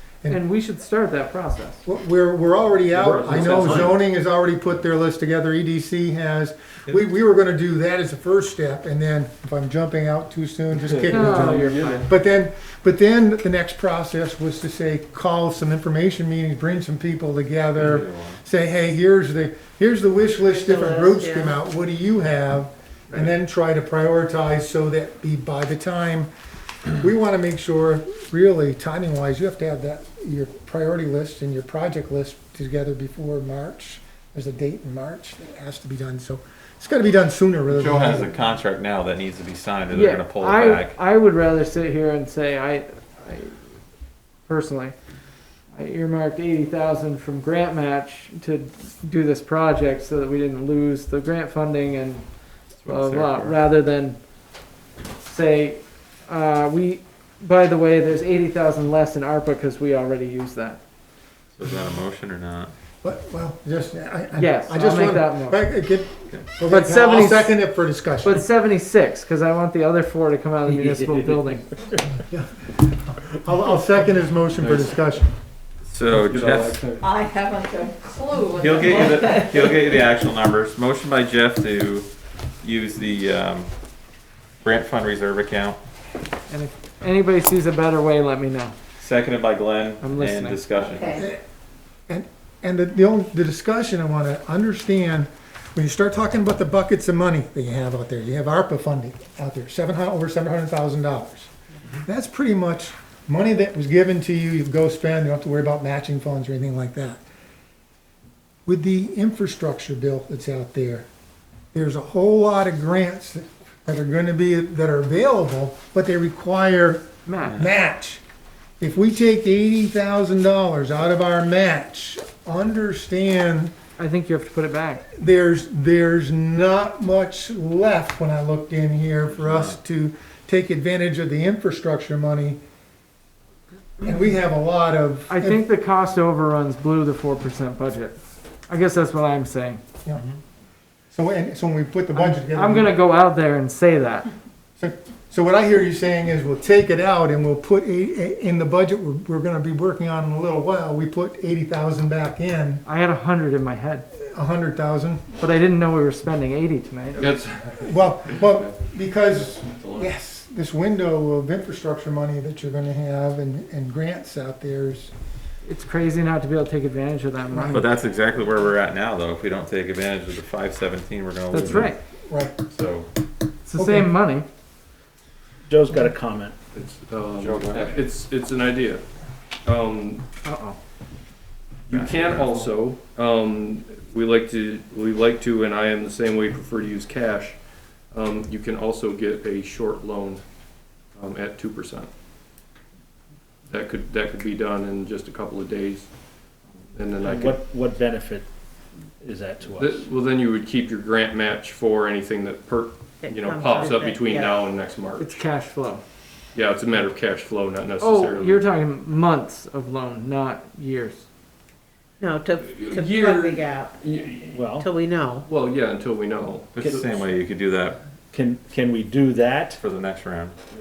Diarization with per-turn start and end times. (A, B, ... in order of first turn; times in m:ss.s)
0:00.3-0:01.8 A
0:01.8-0:26.3 B
0:02.9-0:04.0 C
0:03.4-0:03.9 D
0:10.7-0:12.1 C
0:11.1-0:12.0 A
0:17.8-0:18.4 E
0:20.5-0:21.6 F
0:27.0-0:38.4 B
0:37.7-0:41.0 E
0:39.9-0:43.6 A
0:44.5-0:45.0 A
0:45.7-0:52.2 A
0:52.8-0:53.6 E
0:52.8-0:54.2 A
0:55.2-1:00.8 A
1:01.6-1:02.7 E
1:03.0-1:08.4 B
1:04.3-1:05.6 A
1:06.6-1:07.6 A
1:08.2-1:11.6 A
1:10.6-1:12.0 D
1:12.1-1:15.3 B
1:14.6-1:15.0 C
1:15.9-1:16.8 E
1:16.2-1:17.1 C
1:17.0-1:19.2 F
1:18.5-1:22.1 E
1:22.6-1:23.7 E
1:24.6-1:25.8 E
1:26.5-1:28.7 A
1:29.0-1:31.2 E
1:30.0-1:30.6 A
1:31.2-1:31.4 B
1:32.1-1:41.5 B
1:42.0-1:47.2 B
1:48.6-1:51.0 B
1:51.7-1:58.2 B
1:57.2-1:57.6 A
1:57.4-1:57.7 E
1:58.8-2:03.7 B
2:04.0-2:05.1 A
2:05.1-2:12.6 B
2:09.3-2:09.8 E
2:14.0-2:15.6 B
2:15.3-2:19.8 A
2:21.1-2:22.9 B
2:22.1-2:24.3 A
2:24.8-2:32.8 B
2:32.8-2:34.0 A
2:34.2-2:35.3 B
2:35.4-2:37.2 A
2:37.1-2:38.8 C
2:37.8-2:45.1 B
2:39.3-2:40.1 C
2:45.6-2:47.9 A
2:47.5-2:47.9 B
2:47.7-2:51.9 E
2:51.5-2:52.0 A
2:52.3-2:52.6 B
2:52.7-2:53.1 E
2:53.6-2:54.4 A
2:53.8-2:54.1 B
2:55.7-2:56.6 D
2:56.7-2:59.0 C
2:57.3-2:58.0 E
2:59.6-3:00.2 C
3:00.4-3:00.8 A
3:01.9-3:07.6 C
3:01.9-3:02.7 E
3:08.1-3:10.4 C
3:11.2-3:12.1 C
3:13.7-3:16.1 C
3:16.9-3:17.6 C
3:17.2-3:18.5 D
3:19.2-3:20.0 D
3:19.8-3:25.4 C
3:23.2-3:24.7 F
3:25.2-3:26.0 A
3:26.5-3:28.6 C
3:28.0-3:31.2 A
3:32.2-3:34.0 F
3:32.6-3:34.5 C
3:34.4-3:34.9 D
3:34.8-3:35.4 F
3:35.4-3:37.3 C
3:36.8-3:38.0 E
3:38.3-3:39.8 D
3:39.8-3:40.6 E